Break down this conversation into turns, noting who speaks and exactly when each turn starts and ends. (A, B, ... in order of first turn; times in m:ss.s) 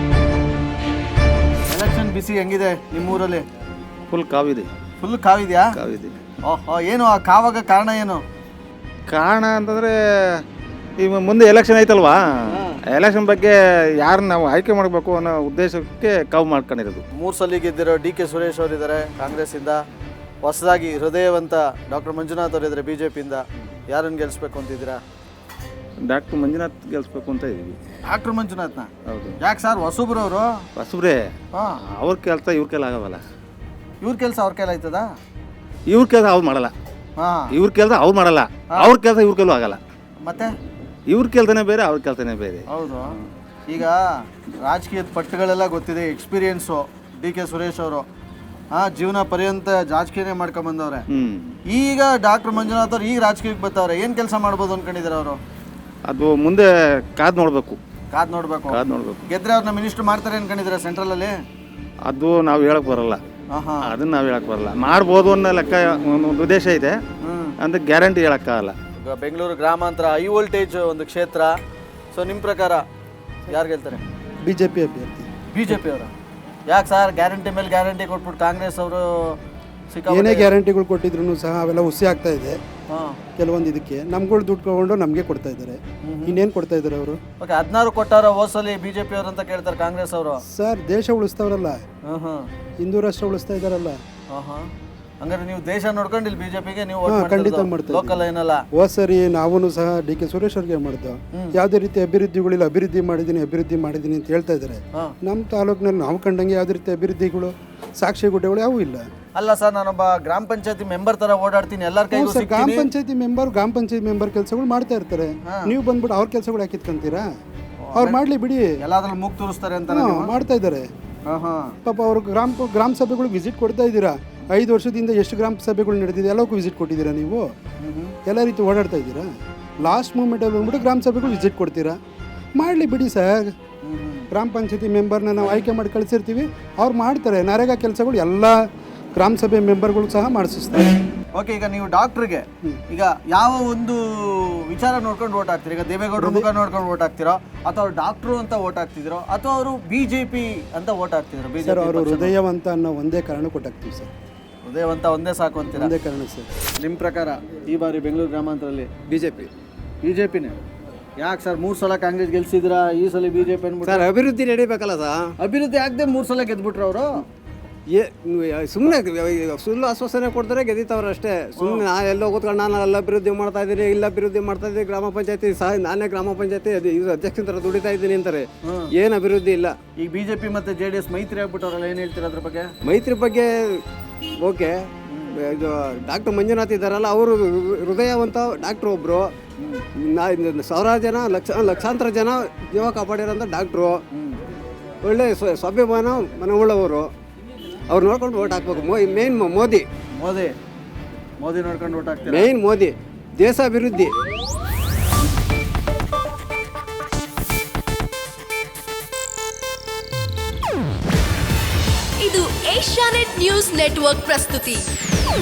0:01.7-0:03.4 A
0:04.1-0:04.7 B
0:05.0-0:05.7 A
0:05.7-0:06.2 B
0:06.4-0:08.2 A
0:09.1-0:10.4 B
0:11.0-0:12.2 B
0:12.5-0:12.8 A
0:12.9-0:17.0 B
0:17.2-0:19.8 A
0:20.4-0:25.0 A
0:26.0-0:27.8 B
0:28.0-0:30.6 A
0:29.0-0:29.4 B
0:30.8-0:31.3 B
0:31.5-0:31.8 A
0:31.9-0:33.2 B
0:34.0-0:35.1 A
0:35.9-0:36.7 B
0:37.2-0:37.5 A
0:37.5-0:39.8 B
0:40.2-0:40.5 A
0:41.1-0:42.6 B
0:42.7-0:43.1 A
0:43.7-0:44.0 A
0:44.6-0:48.0 A
0:48.7-0:51.0 A
0:51.1-0:51.5 B
0:51.7-0:55.4 A
0:56.0-0:57.8 B
0:58.1-1:01.3 A
0:58.7-0:59.2 B
1:02.0-1:03.2 B
1:03.5-1:03.9 A
1:03.9-1:07.0 B
1:07.2-1:07.6 A
1:07.6-1:08.7 B
1:09.0-1:11.5 A
1:12.1-1:12.8 A
1:13.5-1:14.0 A
1:14.4-1:15.3 C
1:15.5-1:16.1 A
1:16.7-1:19.4 A
1:19.9-1:20.5 A
1:20.1-1:22.6 C
1:22.9-1:23.2 A
1:23.4-1:27.2 C
1:26.0-1:26.4 A
1:27.4-1:30.4 A
1:30.5-1:31.8 C
1:32.0-1:32.4 A
1:32.8-1:34.0 C
1:34.3-1:34.6 A
1:35.2-1:38.6 A
1:37.0-1:49.0 C
1:49.4-1:52.9 A
1:52.1-1:57.3 C
1:55.5-1:55.7 A
1:57.8-1:58.2 A
1:57.9-1:58.7 C
1:58.8-2:00.3 A
1:59.9-2:00.9 C
2:01.3-2:01.7 A
2:01.8-2:07.5 C
2:07.8-2:08.2 A
2:08.2-2:09.3 C
2:09.8-2:12.0 C
2:12.6-2:13.5 C
2:13.8-2:14.3 A
2:14.3-2:18.6 C
2:19.2-2:21.0 C
2:21.4-2:32.3 A
2:26.2-2:26.5 C
2:31.6-2:34.1 C
2:34.6-2:35.9 A
2:35.8-2:36.5 C
2:36.8-2:38.9 A
2:39.1-2:39.5 D
2:40.0-2:40.5 A
2:41.2-2:44.1 A
2:43.8-2:45.3 D
2:45.4-2:47.2 A
2:47.9-2:59.7 D
2:51.6-2:51.8 A
2:58.6-2:58.9 A
3:00.0-3:02.7 A
3:02.8-3:03.8 D
3:04.4-3:09.3 D
3:05.1-3:05.3 A
3:09.6-3:09.8 A
3:10.1-3:14.0 D
3:14.1-3:14.4 A
3:15.0-3:17.1 D
3:17.9-3:19.9 D
3:20.2-3:20.5 A
3:21.4-3:22.5 A
3:22.3-3:24.1 D
3:32.2-3:34.9 E